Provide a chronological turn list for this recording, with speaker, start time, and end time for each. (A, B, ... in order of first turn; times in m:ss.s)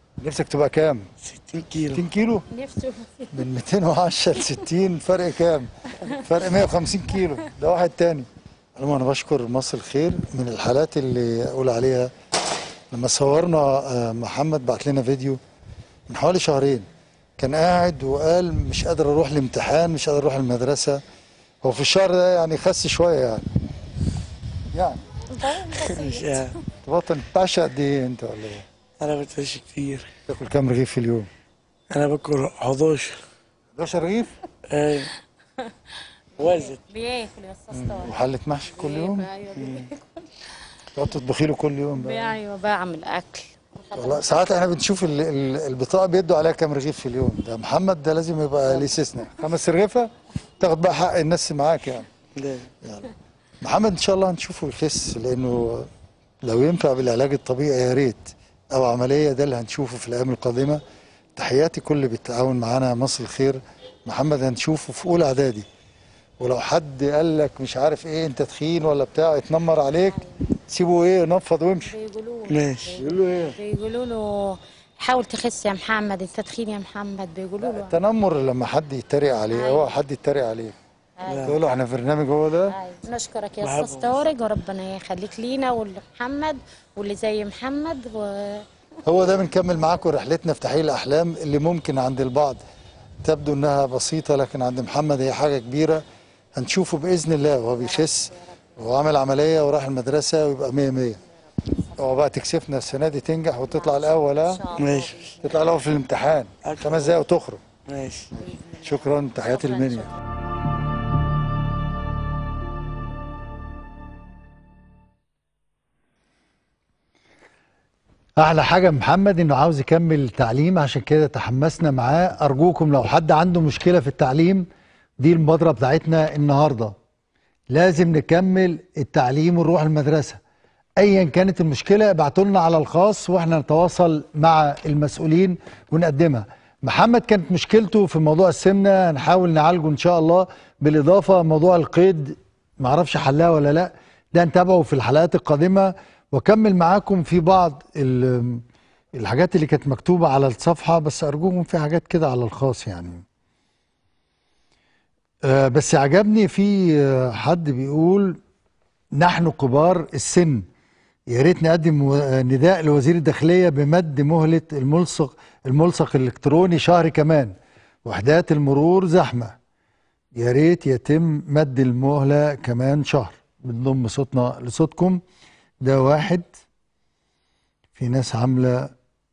0:00.2-0:01.1 A
0:01.2-0:02.0 B
0:01.9-0:02.4 A
0:02.5-0:03.3 C
0:03.3-0:12.1 A
0:12.9-0:15.4 A
0:16.1-0:16.9 A
0:17.4-0:21.0 A
0:21.6-0:23.4 A
0:24.7-0:25.0 A
0:25.3-0:26.5 C
0:25.6-0:26.5 B
0:26.8-0:28.7 A
0:29.0-0:30.1 B
0:30.3-0:31.3 A
0:31.9-0:33.2 B
0:33.8-0:34.3 A
0:34.7-0:35.1 B
0:36.4-0:36.8 B
0:36.4-0:40.0 C
0:37.7-0:39.3 A
0:39.5-0:39.9 B
0:40.9-0:42.3 A
0:41.9-0:44.6 C
0:43.9-0:52.1 A
0:52.4-0:52.7 B
0:52.8-0:53.1 A
0:53.6-0:55.9 A
0:56.4-1:00.8 A
1:01.4-1:05.6 A
1:06.4-1:11.9 A
1:11.8-1:18.0 C
1:12.5-1:13.0 B
1:13.0-1:13.6 A
1:17.6-1:20.7 A
1:19.5-1:20.0 C
1:21.2-1:21.6 C
1:21.3-1:21.6 B
1:21.4-1:22.7 A
1:22.7-1:28.6 C
1:23.6-1:24.2 B
1:29.0-1:32.6 A
1:33.2-1:36.0 A
1:36.6-1:41.2 A
1:37.7-1:39.4 C
1:41.2-1:42.3 C
1:42.0-1:44.6 A
1:43.6-1:45.9 C
1:44.7-1:45.3 B
1:45.4-1:47.6 A
1:46.6-1:47.2 B
1:47.9-1:48.3 B
1:48.3-1:50.1 C
1:48.3-1:50.1 A
1:58.4-2:04.7 A
2:05.2-2:06.9 A
2:07.7-2:10.4 A
2:11.0-2:28.6 A
2:29.2-2:33.2 A
2:35.4-2:38.4 A
2:39.2-2:40.6 A
2:41.3-2:47.5 A
2:48.0-2:49.6 A
2:50.4-2:55.2 A
2:55.8-2:56.5 A
2:58.0-2:58.9 A